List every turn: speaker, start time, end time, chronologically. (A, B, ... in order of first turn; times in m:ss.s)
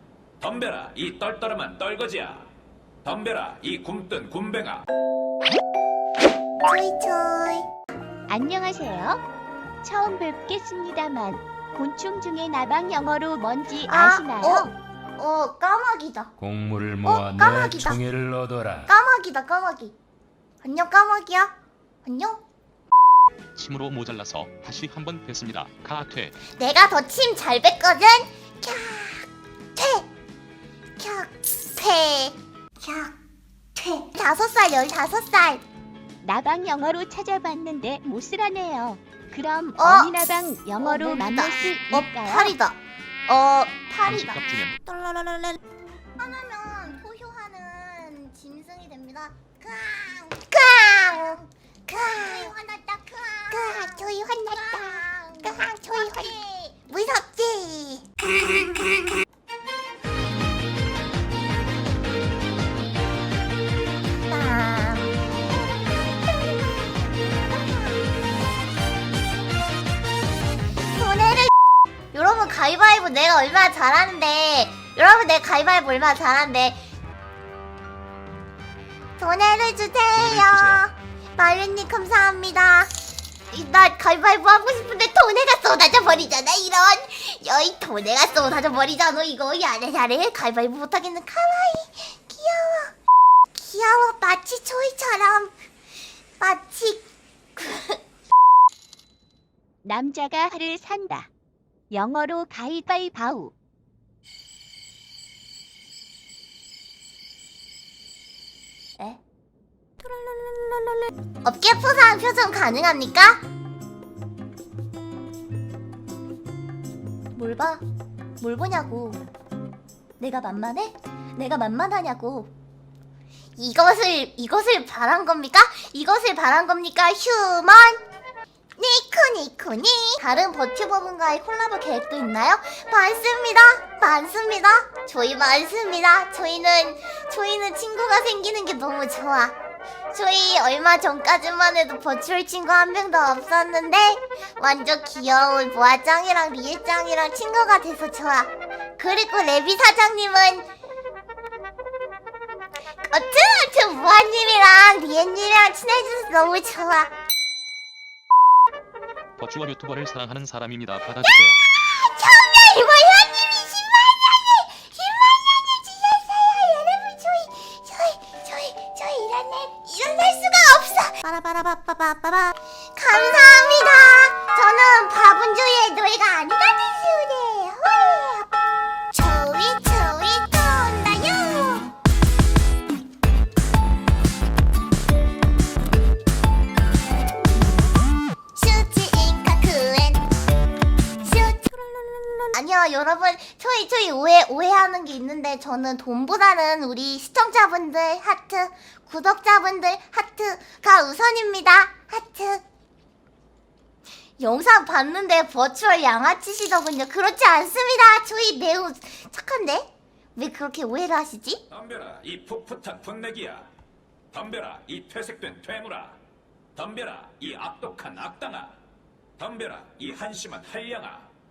0:00.4-0:02.5 A
0:03.0-0:04.8 A
0:06.6-0:07.7 B
0:08.3-0:09.2 C
0:09.8-0:14.7 C
0:13.9-0:16.3 B
0:16.4-0:18.9 D
0:17.1-0:18.0 B
0:18.9-0:19.9 B
0:20.6-0:21.5 B
0:22.0-0:22.4 B
0:23.6-0:26.4 E
0:26.5-0:30.1 B
0:31.0-0:33.1 B
0:33.8-0:35.6 B
0:36.2-0:42.5 C
0:39.8-0:44.4 B
0:44.0-0:44.8 E
0:45.3-0:45.6 D
0:46.2-0:58.8 B
1:04.3-1:05.3 B
1:06.1-1:06.9 B
1:10.9-1:11.5 B
1:12.1-1:16.8 B
1:19.2-1:22.9 B
1:20.1-1:20.8 E
1:23.5-1:32.9 B
1:33.6-1:35.5 B
1:36.4-1:38.0 B
1:39.8-1:41.3 C
1:41.9-1:43.5 C
1:51.4-1:53.4 B
1:57.4-1:57.8 B
1:58.4-1:59.2 B
2:00.2-2:02.5 B
2:03.6-2:08.0 B
2:08.8-2:19.5 B
2:20.1-2:30.7 B
2:33.1-2:37.1 B
2:39.4-2:41.6 E
2:41.3-2:58.5 B
2:59.1-3:01.9 B
3:08.6-3:10.3 B
3:11.2-3:11.6 B
3:12.5-3:22.6 B
3:24.4-3:31.6 B
3:31.7-3:33.7 A
3:34.3-3:36.2 A
3:36.8-3:38.8 A
3:39.4-3:41.3 A